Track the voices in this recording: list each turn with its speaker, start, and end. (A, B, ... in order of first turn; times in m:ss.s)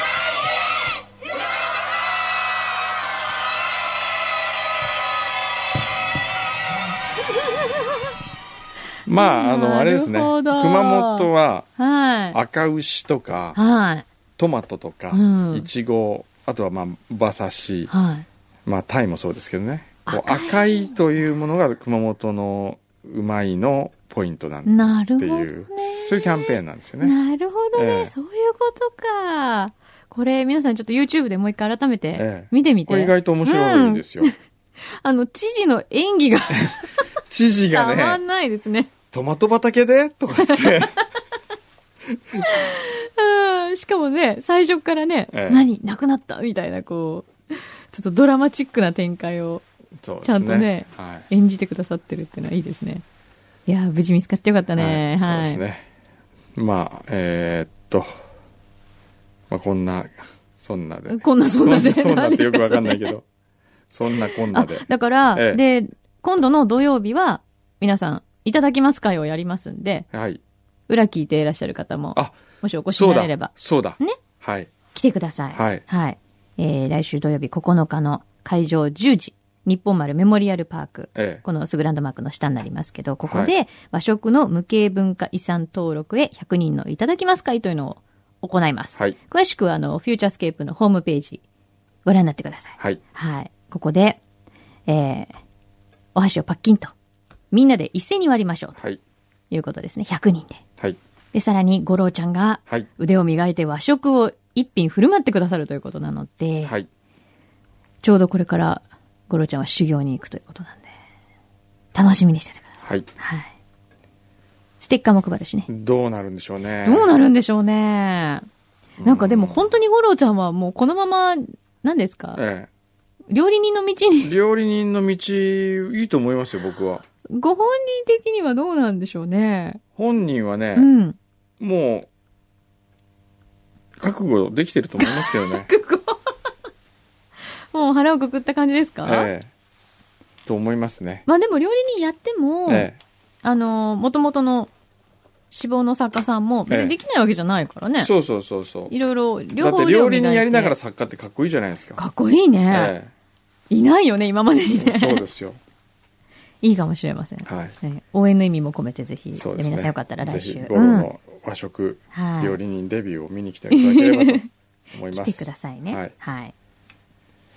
0:09.0-0:11.7 A
0:09.1-0:12.4 B
0:12.3-0:13.6 A
0:13.6-0:14.0 B
0:14.4-0:17.9 A
0:15.1-0:15.7 B
0:17.9-0:18.2 B
0:18.6-0:27.1 A
0:20.0-0:21.0 B
0:24.6-0:34.3 B
0:27.7-0:28.1 A
0:32.1-0:34.3 A
0:34.9-0:37.1 B
0:37.3-0:38.2 A
0:37.7-0:38.9 B
0:39.1-0:41.0 A
0:40.4-0:41.0 B
0:42.4-0:49.6 B
0:45.3-0:45.6 A
0:50.0-0:51.3 A
0:50.2-0:53.0 B
0:53.7-0:55.6 B
0:54.8-0:55.8 A
0:56.6-0:58.1 A
0:59.5-1:03.2 A
1:01.1-1:03.1 B
1:03.9-1:05.6 A
1:04.1-1:10.1 B
1:10.1-1:10.4 A
1:10.9-1:14.2 B
1:12.9-1:14.7 A
1:14.9-1:31.4 B
1:15.5-1:15.8 A
1:21.1-1:21.4 A
1:23.2-1:23.5 A
1:32.0-1:34.2 B
1:34.9-1:35.3 B
1:36.1-1:36.9 B
1:37.5-1:38.8 B
1:39.5-1:40.6 B
1:41.3-1:46.7 B
1:48.0-1:50.9 B
1:51.9-1:53.5 B
1:54.8-1:55.7 B
1:55.7-1:57.1 A
1:56.8-1:58.4 B
1:59.0-1:59.7 A
1:59.0-2:02.4 B
2:02.4-2:02.7 A
2:03.3-2:04.3 B
2:04.2-2:07.0 A
2:07.3-2:09.8 B
2:10.0-2:10.9 A
2:10.7-2:11.2 B
2:11.6-2:12.1 A
2:14.0-2:15.7 A
2:15.0-2:16.5 B
2:17.7-2:19.3 B
2:19.0-2:19.5 A
2:20.4-2:21.2 A
2:21.2-2:22.9 B
2:22.7-2:23.0 A
2:23.4-2:24.7 B
2:25.5-2:28.1 B
2:26.7-2:27.0 A
2:28.0-2:28.9 A
2:28.9-2:30.7 B
2:29.6-2:32.0 A
2:32.0-2:33.0 B
2:32.7-2:33.1 A
2:33.7-2:35.2 B
2:34.8-2:35.6 A
2:36.6-2:41.1 B
2:37.4-2:37.8 A
2:39.3-2:46.1 A
2:42.1-2:42.6 B
2:43.7-2:44.5 B
2:45.1-2:46.5 B